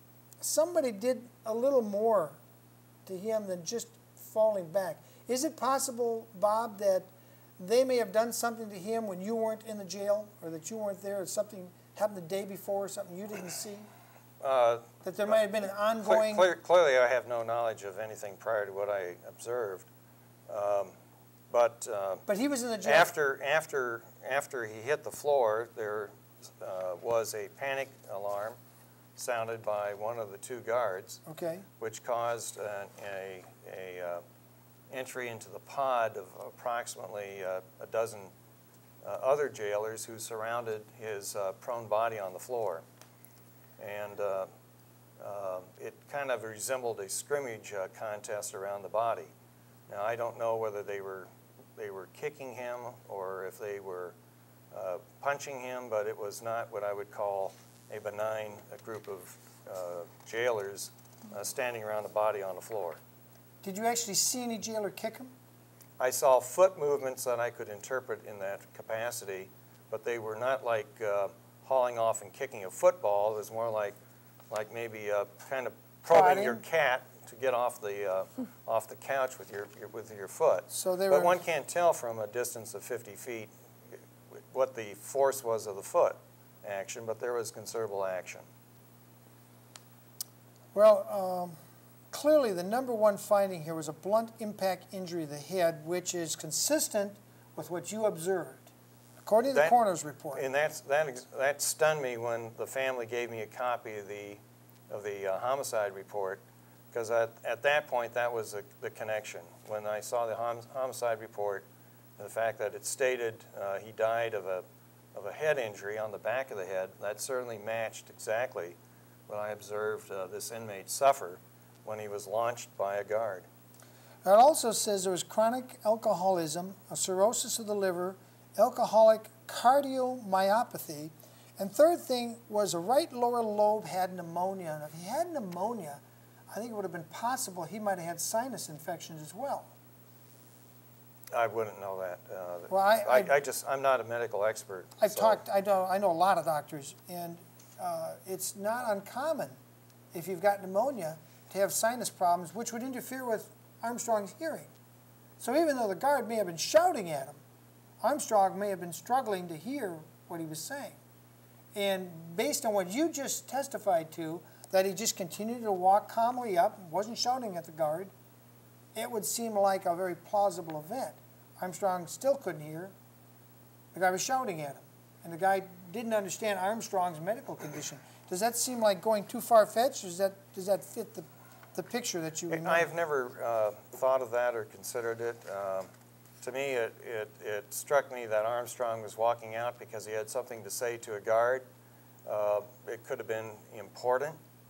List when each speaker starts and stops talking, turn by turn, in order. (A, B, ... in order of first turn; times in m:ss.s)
0:00.4-0:02.4 A
0:03.0-0:13.9 A
0:14.4-0:15.4 B
0:15.0-0:16.5 A
0:16.0-0:19.9 B
0:20.5-0:20.9 B
0:21.5-0:22.2 B
0:22.3-0:23.1 A
0:22.8-0:28.6 B
0:29.2-0:31.2 B
0:31.2-0:31.6 A
0:31.8-0:34.2 B
0:34.9-0:38.3 B
0:39.0-0:42.8 B
0:43.8-0:44.5 B
0:45.2-0:49.3 B
0:49.9-0:54.1 B
0:54.7-1:03.0 B
1:03.6-1:05.3 A
1:06.0-1:14.0 B
1:14.5-1:23.5 B
1:16.1-1:16.6 A
1:20.7-1:21.4 A
1:24.3-1:28.4 B
1:30.7-1:31.6 A
1:32.1-1:38.7 A
1:39.2-1:40.4 A
1:39.5-1:39.8 B
1:40.3-1:51.6 B
1:52.2-1:58.8 B
1:59.3-2:03.4 B
2:04.2-2:16.0 A
2:16.5-2:19.7 A
2:21.3-2:25.4 B
2:22.7-2:23.3 A
2:25.0-2:29.6 A
2:30.1-2:34.7 A
2:35.4-2:37.4 A
2:38.0-2:41.0 A
2:41.7-2:48.1 A
2:48.9-2:52.9 A
2:53.9-3:02.9 A
3:02.5-3:05.9 B
3:06.4-3:11.6 B
3:12.2-3:14.4 B